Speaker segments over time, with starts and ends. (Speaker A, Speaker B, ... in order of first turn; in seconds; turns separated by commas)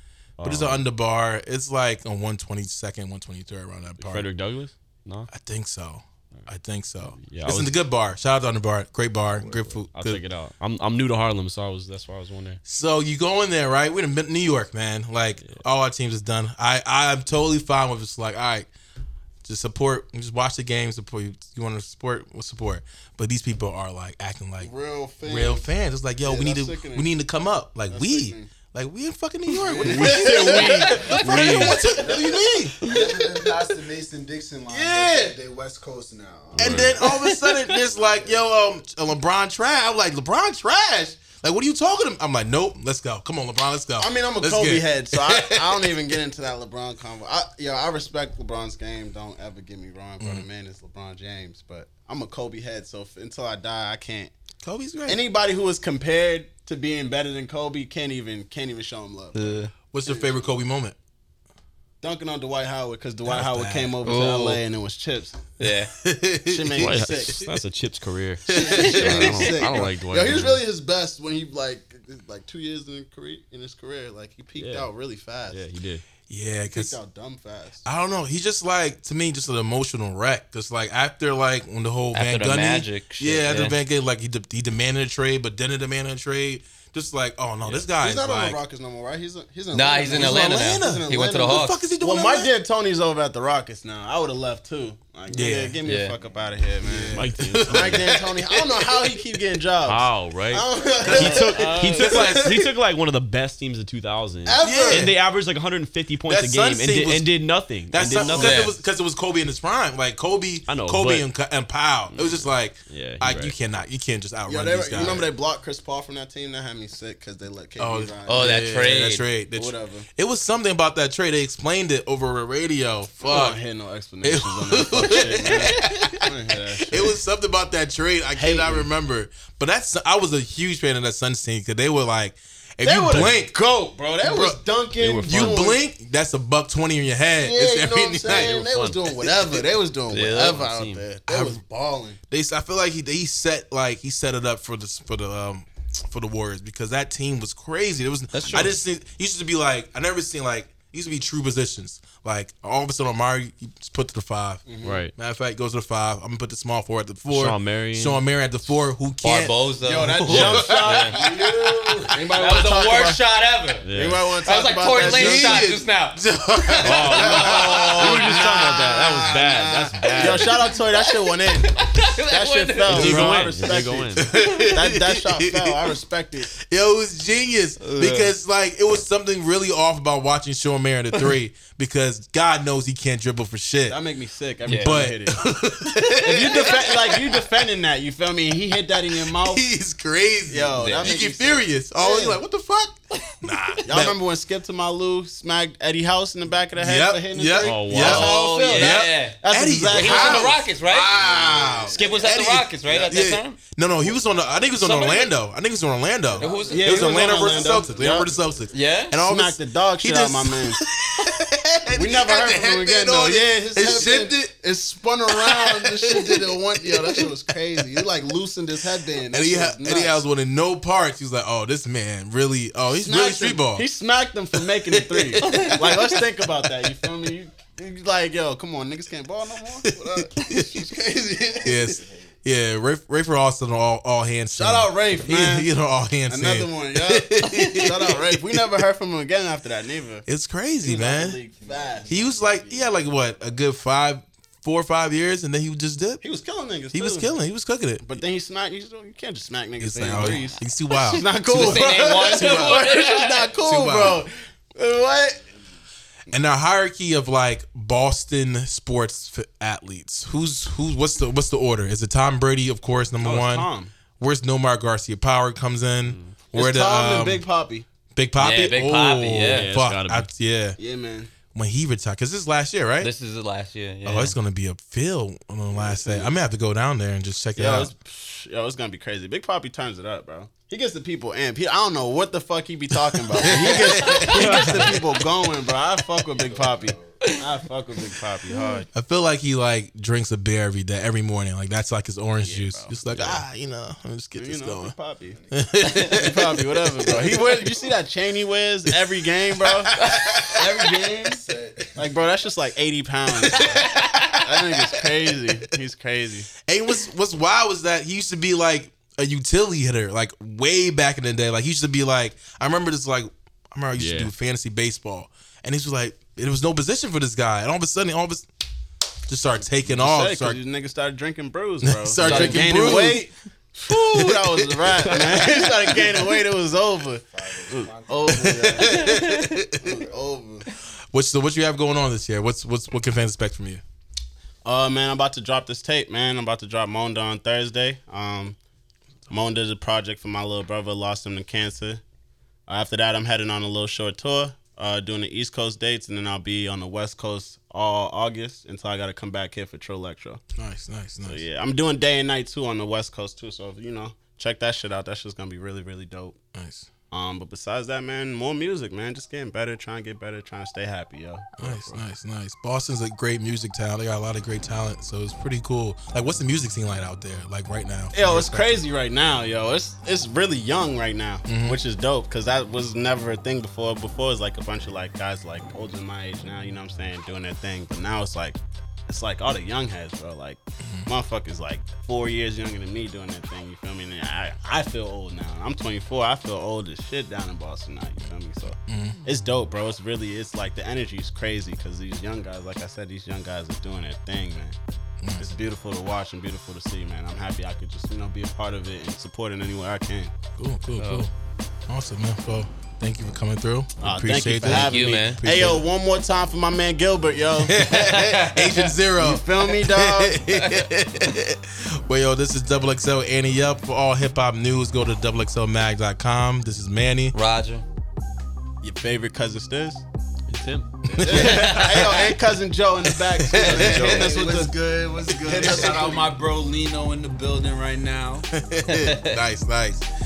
Speaker A: 0.4-0.8, Speaker B: 0.4-4.3, Speaker A: 4.0-5.3, Speaker B: 5.3-10.2, Speaker A: 7.0-7.8, Speaker A: 9.4-12.6, Speaker B: 12.7-18.7, Speaker B: 19.4-24.7, Speaker C: 24.6-25.7, Speaker B: 25.2-32.8, Speaker C: 26.2-27.1, Speaker C: 27.9-28.5, Speaker C: 29.7-30.9, Speaker A: 29.7-32.0, Speaker D: 30.8-31.5, Speaker E: 31.6-36.9, Speaker D: 32.8-33.2, Speaker C: 34.7-35.3, Speaker A: 36.5-37.0, Speaker B: 36.5-45.9, Speaker D: 37.0-37.8, Speaker E: 37.9-38.4, Speaker C: 44.0-54.3, Speaker B: 50.2-50.5, Speaker B: 54.6-55.2, Speaker C: 55.1-60.5, Speaker D: 59.3-59.7, Speaker B: 59.9-61.0, Speaker C: 62.0-65.4, Speaker B: 63.2-64.0, Speaker D: 64.0-64.6, Speaker D: 65.6-65.9, Speaker B: 65.6-67.5, Speaker C: 66.5-67.4, Speaker A: 66.8-70.6, Speaker B: 68.5-69.6, Speaker C: 68.6-75.6, Speaker D: 69.1-69.5, Speaker A: 74.5-74.9, Speaker A: 75.5-76.0, Speaker B: 76.3-77.0, Speaker C: 76.7-77.8, Speaker B: 77.8-88.6, Speaker D: 82.1-83.8, Speaker C: 87.9-102.7, Speaker D: 89.7-91.8, Speaker B: 90.1-92.5, Speaker B: 95.3-95.8, Speaker D: 95.8-96.2, Speaker B: 96.8-99.2, Speaker A: 97.1-98.0, Speaker A: 99.8-108.7, Speaker B: 101.1-102.3, Speaker C: 104.4-105.1, Speaker B: 104.6-105.1, Speaker B: 106.3-107.3, Speaker B: 107.9-115.3, Speaker C: 108.0-108.5, Speaker D: 108.4-108.8, Speaker A: 110.7-111.3, Speaker A: 112.1-113.5, Speaker C: 114.5-118.6, Speaker B: 117.8-123.6, Speaker D: 118.3-119.3, Speaker C: 119.5-120.1, Speaker C: 123.2-127.2, Speaker B: 124.2-133.5, Speaker D: 125.5-126.0, Speaker C: 128.3-128.9, Speaker C: 132.8-135.8, Speaker B: 134.2-134.6, Speaker A: 134.4-135.6, Speaker B: 135.2-138.6, Speaker C: 137.4-142.2, Speaker A: 138.2-139.6, Speaker A: 140.1-141.1, Speaker D: 140.1-140.6, Speaker B: 141.2-141.6, Speaker B: 142.3-162.1, Speaker D: 148.3-148.8, Speaker C: 154.7-155.1, Speaker A: 154.8-155.1, Speaker A: 157.3-158.2, Speaker D: 159.2-161.2, Speaker C: 159.8-161.3, Speaker A: 160.3-160.7, Speaker E: 161.1-162.3, Speaker C: 162.1-163.2, Speaker D: 162.3-166.2, Speaker A: 163.8-164.2, Speaker C: 163.9-165.7, Speaker B: 164.9-169.1, Speaker A: 166.8-170.7, Speaker D: 166.8-168.3, Speaker C: 167.1-176.5, Speaker D: 170.0-170.3, Speaker D: 170.9-173.3, Speaker A: 172.9-174.3, Speaker B: 174.2-175.9, Speaker B: 176.5-184.0, Speaker D: 177.8-178.3, Speaker C: 183.9-185.4, Speaker D: 184.7-185.0, Speaker B: 184.7-187.4, Speaker D: 185.9-186.6, Speaker C: 186.2-189.7, Speaker B: 189.2-194.2, Speaker C: 190.5-192.4, Speaker C: 193.8-200.6, Speaker B: 196.8-214.6, Speaker A: 197.6-198.3, Speaker D: 197.9-201.1, Speaker E: 201.1-202.1, Speaker C: 201.5-202.1, Speaker D: 201.9-203.6, Speaker E: 204.3-204.6, Speaker D: 204.8-205.3, Speaker E: 206.3-208.7, Speaker D: 206.4-207.1, Speaker C: 206.6-208.3, Speaker D: 208.7-209.2, Speaker C: 209.2-210.8, Speaker C: 211.9-220.2, Speaker B: 215.3-218.0, Speaker B: 219.3-223.8, Speaker C: 222.9-231.9, Speaker B: 224.6-226.5, Speaker D: 225.4-226.0, Speaker B: 230.3-230.7, Speaker E: 231.6-232.3, Speaker B: 231.6-238.7, Speaker C: 234.5-235.7, Speaker C: 236.3-240.2, Speaker D: 237.4-237.9, Speaker B: 240.2-241.4, Speaker C: 240.8-242.1, Speaker E: 241.5-243.6, Speaker B: 242.1-246.2, Speaker C: 246.2-247.3, Speaker B: 246.9-248.2, Speaker C: 248.0-255.4, Speaker B: 249.8-252.8, Speaker D: 250.1-253.5, Speaker B: 253.6-254.2, Speaker B: 256.3-267.5, Speaker C: 263.2-263.9, Speaker A: 266.1-266.4, Speaker C: 266.5-267.9, Speaker B: 268.1-270.8, Speaker D: 268.4-269.7, Speaker A: 269.5-270.3, Speaker C: 270.8-271.3, Speaker B: 271.5-273.1, Speaker D: 273.0-274.4, Speaker B: 274.0-277.9, Speaker C: 275.7-276.4, Speaker C: 277.5-288.9, Speaker B: 283.1-284.9, Speaker D: 284.0-284.9, Speaker A: 284.4-284.9, Speaker E: 286.4-287.3, Speaker D: 287.2-287.5, Speaker B: 288.9-294.9, Speaker C: 292.4-293.4, Speaker C: 294.4-301.4, Speaker B: 295.5-297.7, Speaker D: 295.8-296.1, Speaker B: 299.6-300.9, Speaker D: 299.9-300.5, Speaker E: 301.1-302.1, Speaker C: 301.9-306.5, Speaker B: 303.4-305.0, Speaker B: 306.6-318.5, Speaker A: 313.9-314.3, Speaker B: 319.3-320.6, Speaker C: 319.8-329.1, Speaker B: 321.8-323.3, Speaker D: 322.2-322.7, Speaker B: 323.9-326.1, Speaker E: 327.2-329.0, Speaker B: 328.3-329.9, Speaker D: 328.9-329.6, Speaker C: 329.8-330.6, Speaker E: 329.9-330.1, Speaker B: 331.1-333.8, Speaker C: 334.6-338.6, Speaker C: 339.3-342.0, Speaker C: 342.7-350.4, Speaker B: 350.5-351.4, Speaker C: 351.2-356.4, Speaker B: 356.5-356.9, Speaker C: 357.1-362.0, Speaker B: 361.6-368.8, Speaker C: 368.1-394.8, Speaker B: 371.4-371.8, Speaker B: 380.8-381.1, Speaker B: 388.8-389.2, Speaker C: 395.4-400.4, Speaker B: 400.5-401.3, Speaker D: 401.0-401.2, Speaker B: 401.9-405.8, Speaker C: 404.0-407.9, Speaker D: 404.6-405.4, Speaker B: 407.6-417.4, Speaker D: 407.8-408.9, Speaker C: 409.2-410.4, Speaker D: 410.5-410.8, Speaker D: 417.3-417.8, Speaker C: 418.8-420.0, Speaker A: 420.5-421.0, Speaker B: 421.1-422.3, Speaker C: 421.1-424.8, Speaker E: 421.2-422.3, Speaker D: 421.3-422.0, Speaker B: 423.1-424.5, Speaker E: 423.5-428.5, Speaker B: 425.4-425.9, Speaker C: 425.5-426.2, Speaker B: 428.5-430.1, Speaker D: 428.9-429.3